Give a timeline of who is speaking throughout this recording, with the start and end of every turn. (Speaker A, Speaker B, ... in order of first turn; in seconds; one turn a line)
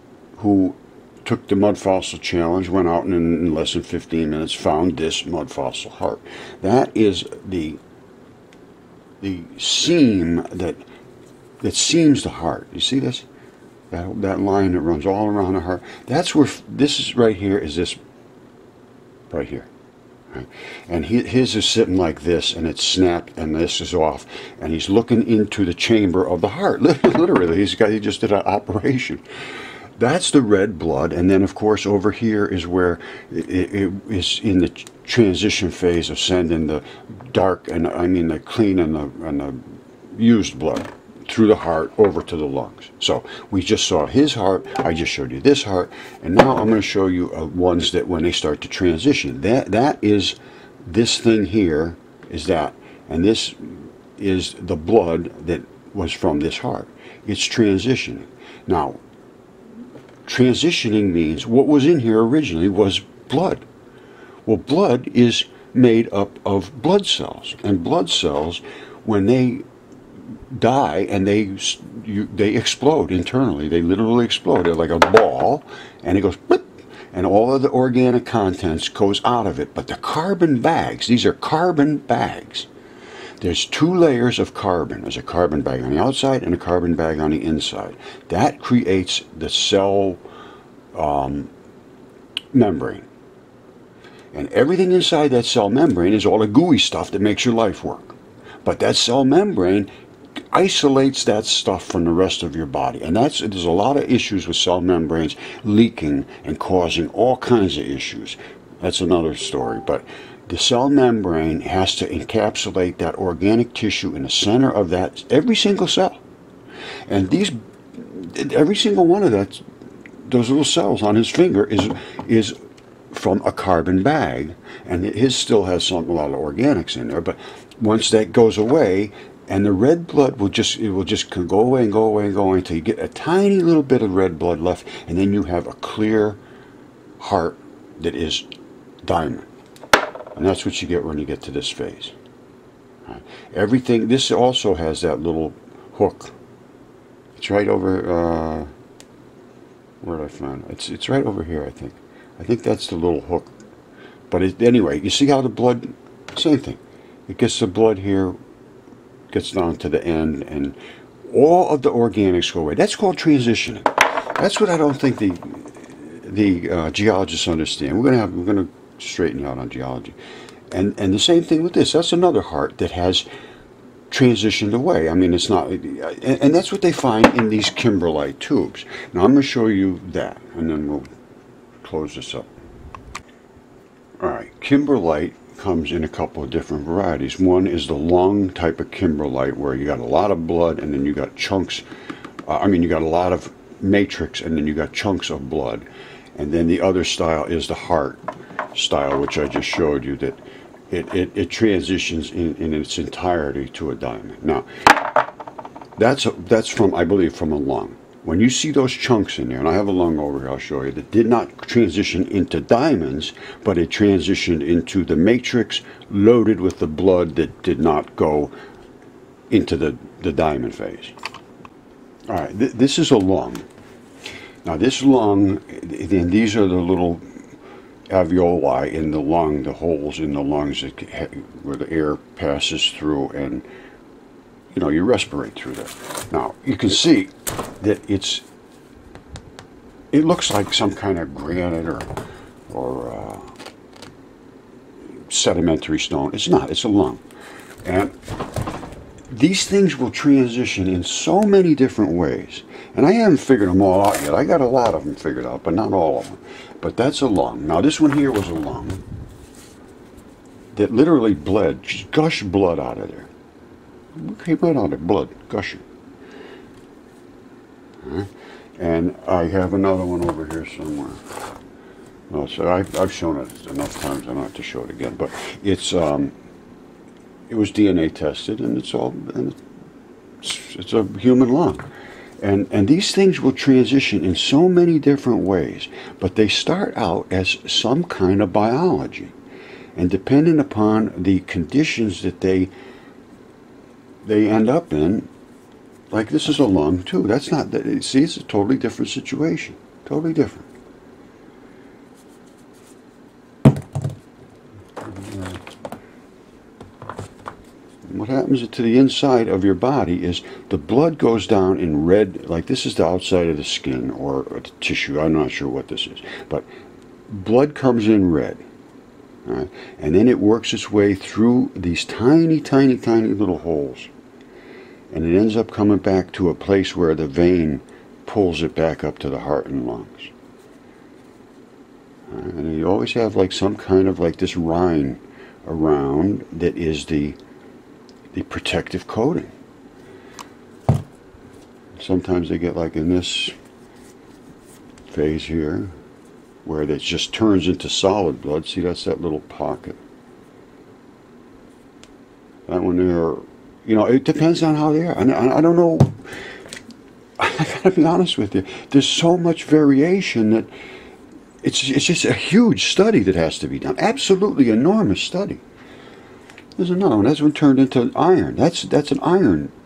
Speaker A: 0.4-7.8
Speaker A: 9.2-10.8
Speaker A: 11.6-13.3
Speaker A: 13.9-18.0
Speaker A: 19.3-19.7
Speaker A: 20.3-29.2
Speaker A: 30.0-59.0
Speaker A: 60.2-63.7
Speaker A: 64.5-69.7
Speaker A: 70.5-82.7
Speaker A: 83.4-90.2
Speaker A: 90.9-91.5
Speaker A: 92.5-93.1
Speaker A: 94.3-99.9
Speaker A: 100.5-116.2
Speaker A: 117.1-119.6
Speaker A: 120.2-122.5
Speaker A: 123.1-136.4
Speaker A: 137.2-138.5
Speaker A: 139.0-139.5
Speaker A: 140.3-142.1
Speaker A: 143.1-146.3
Speaker A: 147.3-148.7
Speaker A: 150.0-153.5
Speaker A: 154.3-158.3
Speaker A: 159.3-170.2
Speaker A: 170.7-173.2
Speaker A: 174.1-181.1
Speaker A: 181.8-182.5
Speaker A: 184.2-191.8
Speaker A: 192.4-204.7
Speaker A: 206.0-218.5
Speaker A: 219.5-221.1
Speaker A: 222.3-223.7
Speaker A: 224.6-227.2
Speaker A: 228.1-233.7
Speaker A: 234.7-238.4
Speaker A: 240.1-242.1
Speaker A: 242.7-243.5
Speaker A: 245.3-247.2
Speaker A: 247.8-248.1
Speaker A: 249.3-259.0
Speaker A: 260.7-263.3
Speaker A: 264.1-265.8
Speaker A: 268.0-271.2
Speaker A: 272.3-276.3
Speaker A: 277.5-279.6
Speaker A: 280.4-281.9
Speaker A: 282.4-289.3
Speaker A: 289.9-292.7
Speaker A: 294.2-295.3
Speaker A: 296.1-300.7
Speaker A: 305.0-305.6
Speaker A: 308.1-316.7
Speaker A: 317.3-318.6
Speaker A: 319.4-324.1
Speaker A: 325.1-330.3
Speaker A: 332.3-337.4
Speaker A: 338.3-339.5
Speaker A: 342.0-343.5
Speaker A: 345.1-345.9
Speaker A: 346.6-350.0
Speaker A: 352.7-356.2
Speaker A: 357.4-360.7
Speaker A: 361.6-365.6
Speaker A: 366.8-369.7